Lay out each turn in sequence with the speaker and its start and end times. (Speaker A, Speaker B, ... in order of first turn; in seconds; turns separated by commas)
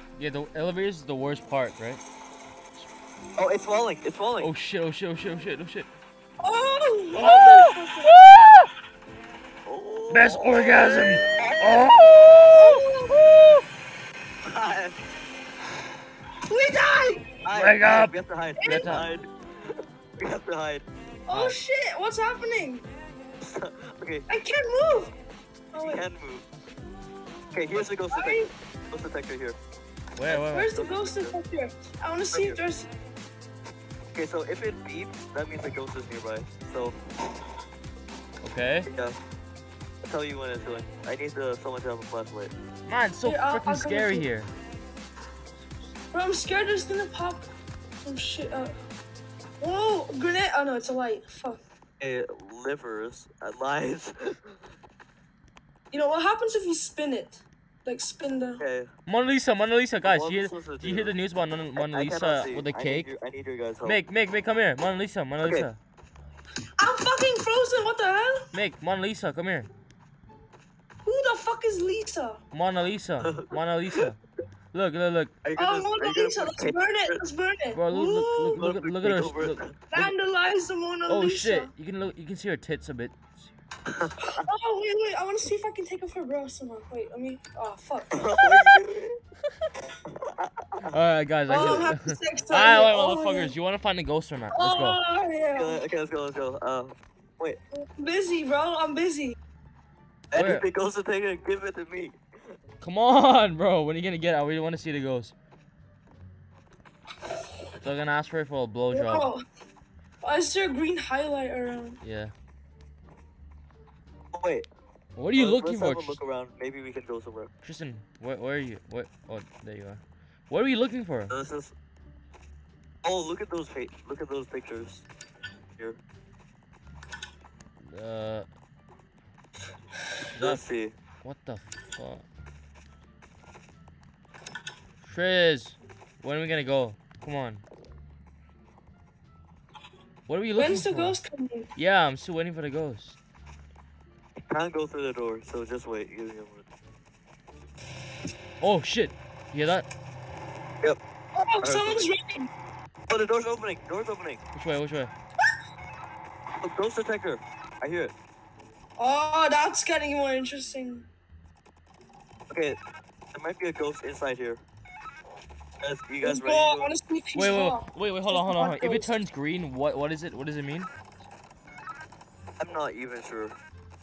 Speaker A: 0.2-2.0, Speaker B: 3.4-4.5, Speaker A: 4.4-5.9, Speaker C: 6.4-8.2, Speaker A: 7.1-8.7, Speaker B: 9.7-11.6, Speaker A: 10.1-13.6, Speaker C: 12.5-13.2, Speaker B: 14.5-15.0, Speaker C: 16.5-17.4, Speaker B: 17.4-19.3, Speaker A: 17.5-19.1, Speaker C: 18.6-18.9, Speaker B: 20.2-20.9, Speaker C: 21.3-22.9, Speaker A: 21.3-21.6, Speaker B: 23.4-24.3, Speaker C: 24.3-25.1, Speaker C: 25.7-26.1, Speaker B: 25.7-26.5, Speaker B: 27.5-29.6, Speaker C: 28.1-28.5, Speaker A: 30.2-30.7, Speaker B: 30.3-31.4, Speaker C: 30.3-32.9, Speaker B: 32.3-32.6, Speaker B: 34.1-37.0, Speaker A: 38.4-38.9, Speaker B: 38.9-39.2, Speaker B: 40.0-42.5, Speaker A: 42.9-44.5, Speaker C: 43.2-44.3, Speaker C: 46.1-47.5, Speaker C: 48.0-48.8, Speaker C: 49.6-51.6, Speaker B: 52.0-54.5, Speaker C: 55.9-58.6, Speaker B: 58.6-58.9, Speaker A: 59.1-63.1, Speaker B: 60.0-61.2, Speaker B: 61.8-64.0, Speaker A: 63.8-65.8, Speaker B: 65.4-65.7, Speaker C: 66.8-68.4, Speaker A: 68.5-69.7, Speaker C: 71.0-72.4, Speaker A: 72.5-74.2, Speaker B: 73.2-73.5, Speaker A: 74.7-75.4, Speaker B: 75.4-77.2, Speaker C: 75.6-78.7, Speaker A: 77.7-80.1, Speaker B: 78.6-79.8, Speaker C: 79.9-81.7, Speaker A: 81.1-83.5, Speaker B: 83.9-84.2, Speaker C: 84.2-88.8, Speaker B: 88.1-89.2, Speaker B: 90.1-90.9, Speaker A: 90.9-95.0, Speaker C: 91.5-93.5, Speaker C: 94.5-95.8, Speaker B: 95.6-97.6, Speaker C: 97.7-99.4, Speaker B: 100.3-102.2, Speaker A: 100.3-100.7, Speaker A: 102.8-105.3, Speaker A: 107.8-109.3, Speaker C: 108.9-109.4, Speaker C: 110.2-112.0, Speaker A: 112.0-112.3, Speaker B: 114.3-114.7, Speaker A: 115.2-116.2, Speaker B: 115.3-117.5, Speaker A: 117.6-121.3, Speaker B: 121.3-121.7, Speaker B: 123.0-125.1, Speaker A: 127.8-128.5, Speaker A: 130.3-130.6, Speaker B: 130.4-131.0, Speaker A: 131.2-132.3, Speaker A: 135.0-137.6, Speaker A: 140.3-141.2, Speaker C: 140.6-141.7, Speaker A: 141.8-143.2, Speaker B: 144.5-146.6, Speaker A: 148.6-149.9, Speaker C: 151.3-152.5, Speaker B: 151.6-152.1, Speaker B: 153.1-154.4, Speaker A: 154.6-155.1, Speaker B: 156.6-158.1, Speaker C: 159.0-161.1, Speaker B: 162.5-162.8, Speaker B: 163.3-164.6, Speaker B: 165.8-166.9, Speaker C: 166.2-169.2, Speaker A: 167.3-170.9, Speaker B: 172.6-173.6